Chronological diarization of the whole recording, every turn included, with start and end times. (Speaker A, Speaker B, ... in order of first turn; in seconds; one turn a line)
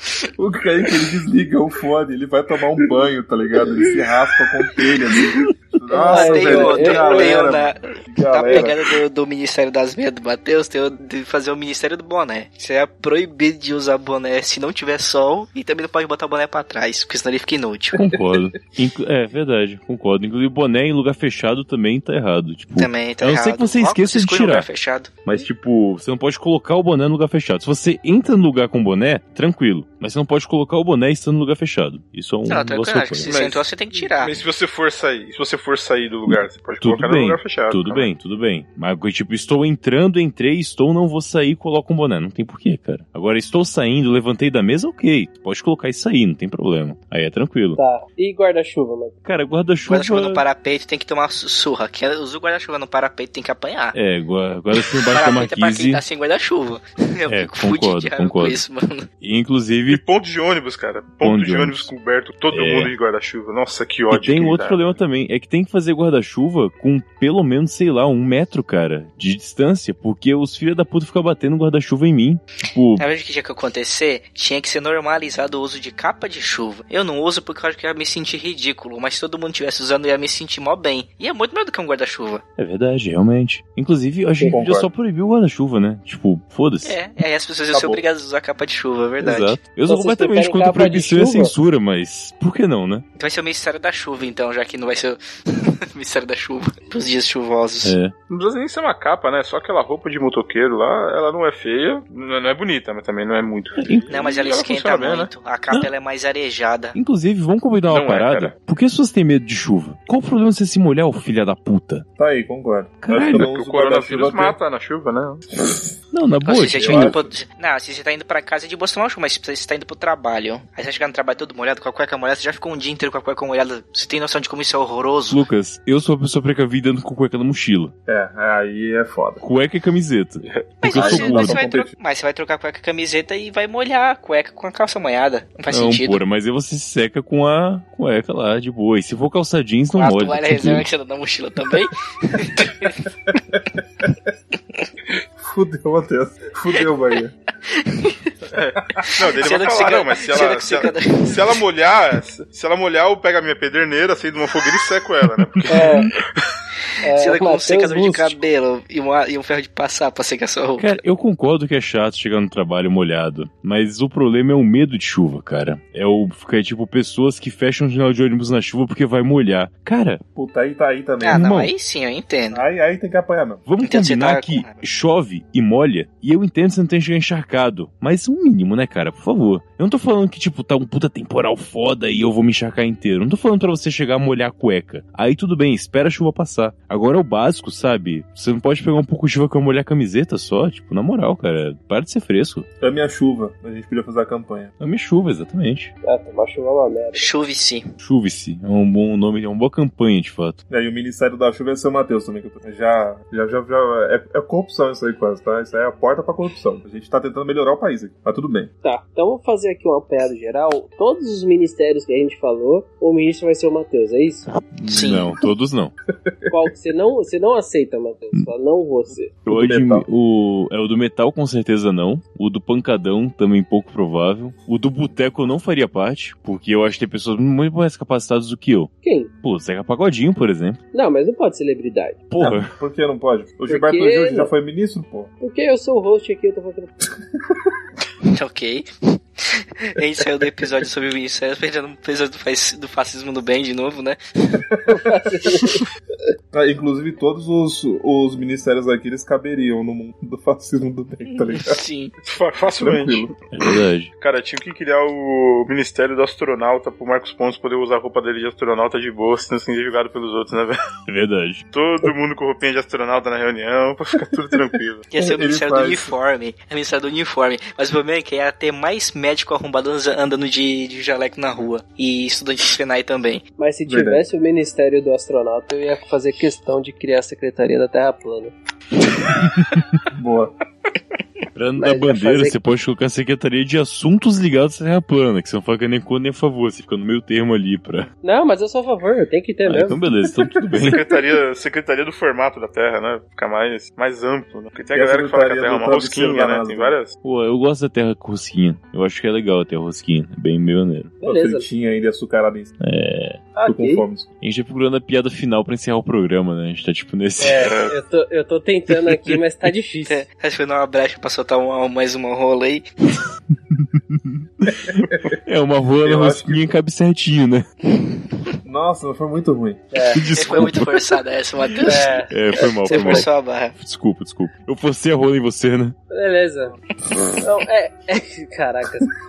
Speaker A: 0.4-8.8
Speaker B: 5.9-7.4
Speaker C: 6.0-18.0
Speaker D: 18.0-24.7
Speaker C: 22.8-25.2
Speaker D: 25.2-33.3
Speaker C: 32.5-34.4
Speaker E: 33.2-38.1
Speaker D: 36.3-47.8
Speaker B: 47.8-49.1
Speaker D: 49.2-50.5
Speaker C: 49.9-54.0
Speaker D: 53.9-56.0
Speaker C: 55.1-59.1
Speaker D: 57.3-58.6
Speaker D: 59.2-60.0
Speaker E: 59.9-65.0
Speaker D: 61.2-61.9
Speaker D: 62.5-62.9
Speaker D: 64.1-73.0
Speaker C: 73.0-82.4
Speaker D: 82.6-87.0
Speaker A: 84.5-84.9
Speaker C: 86.8-89.6
Speaker A: 87.7-88.0
Speaker D: 89.2-93.0
Speaker B: 89.9-91.5
Speaker C: 93.2-98.0
Speaker D: 97.8-98.1
Speaker E: 98.3-105.3
Speaker D: 103.8-104.2
Speaker C: 104.1-107.0
Speaker D: 106.9-112.0
Speaker E: 107.9-108.5
Speaker A: 112.2-114.6
Speaker D: 113.0-113.5
Speaker E: 113.1-115.5
Speaker D: 116.1-117.2
Speaker C: 116.5-125.4
Speaker A: 116.8-117.3
Speaker D: 125.2-127.9
Speaker A: 128.1-129.4
Speaker D: 129.4-131.6
Speaker C: 130.8-136.2
Speaker A: 130.9-131.9
Speaker D: 135.7-140.8
Speaker C: 139.9-143.1
Speaker A: 145.4-147.3
Speaker C: 147.7-148.3
Speaker E: 148.5-156.6
Speaker C: 149.0-151.6
Speaker D: 155.6-156.1
Speaker B: 155.7-156.1
Speaker B: 157.0-158.4
Speaker C: 157.0-161.0
Speaker D: 160.8-170.2
Speaker A: 170.3-171.4
Speaker C: 171.2-172.6
Speaker D: 171.3-171.7
Speaker A: 172.5-173.6
Speaker D: 173.7-192.7
Speaker C: 173.8-174.8
Speaker A: 192.8-194.7
Speaker D: 194.8-195.9
Speaker B: 196.1-197.3
Speaker C: 197.2-197.9
Speaker D: 198.0-200.6
Speaker A: 200.7-208.7
Speaker B: 208.8-214.5
Speaker D: 214.7-215.9
Speaker C: 214.9-215.3
Speaker A: 216.3-216.6
Speaker B: 216.5-219.3
Speaker D: 219.4-230.8
Speaker A: 219.5-220.1
Speaker B: 229.0-229.3
Speaker B: 230.9-232.2
Speaker D: 232.3-232.7
Speaker A: 232.4-235.3
Speaker B: 233.7-234.5
Speaker B: 235.4-237.0
Speaker C: 238.3-238.9
Speaker C: 239.4-244.2
Speaker A: 244.7-245.8
Speaker B: 244.9-245.8
Speaker A: 246.5-251.8
Speaker C: 251.3-252.1
Speaker E: 252.2-253.3
Speaker A: 252.7-253.4
Speaker D: 253.5-254.1
Speaker E: 254.2-260.8
Speaker D: 261.1-261.6
Speaker E: 261.7-265.0
Speaker C: 265.1-273.4
Speaker A: 265.2-266.1
Speaker B: 273.6-278.5
Speaker A: 273.9-274.2
Speaker D: 279.4-280.0
Speaker A: 280.1-280.5
Speaker D: 281.6-288.1
Speaker B: 281.8-282.6
Speaker B: 288.2-290.1
Speaker D: 289.7-291.0
Speaker A: 290.6-291.0
Speaker E: 290.8-297.1
Speaker A: 294.9-297.0
Speaker D: 297.2-301.1
Speaker B: 301.2-301.7
Speaker A: 301.2-302.7
Speaker D: 302.8-303.5
Speaker B: 303.6-304.1
Speaker A: 303.6-304.3
Speaker D: 304.4-307.7
Speaker B: 307.4-310.2
Speaker E: 307.6-307.9
Speaker D: 308.9-309.4
Speaker C: 310.1-312.9
Speaker D: 313.5-317.7
Speaker A: 314.7-315.3
Speaker A: 316.0-316.7
Speaker A: 318.6-319.9
Speaker B: 319.9-320.2
Speaker D: 320.1-321.0
Speaker C: 320.3-323.8
Speaker B: 321.8-323.3
Speaker D: 322.3-326.0
Speaker B: 326.1-326.8
Speaker B: 327.4-329.1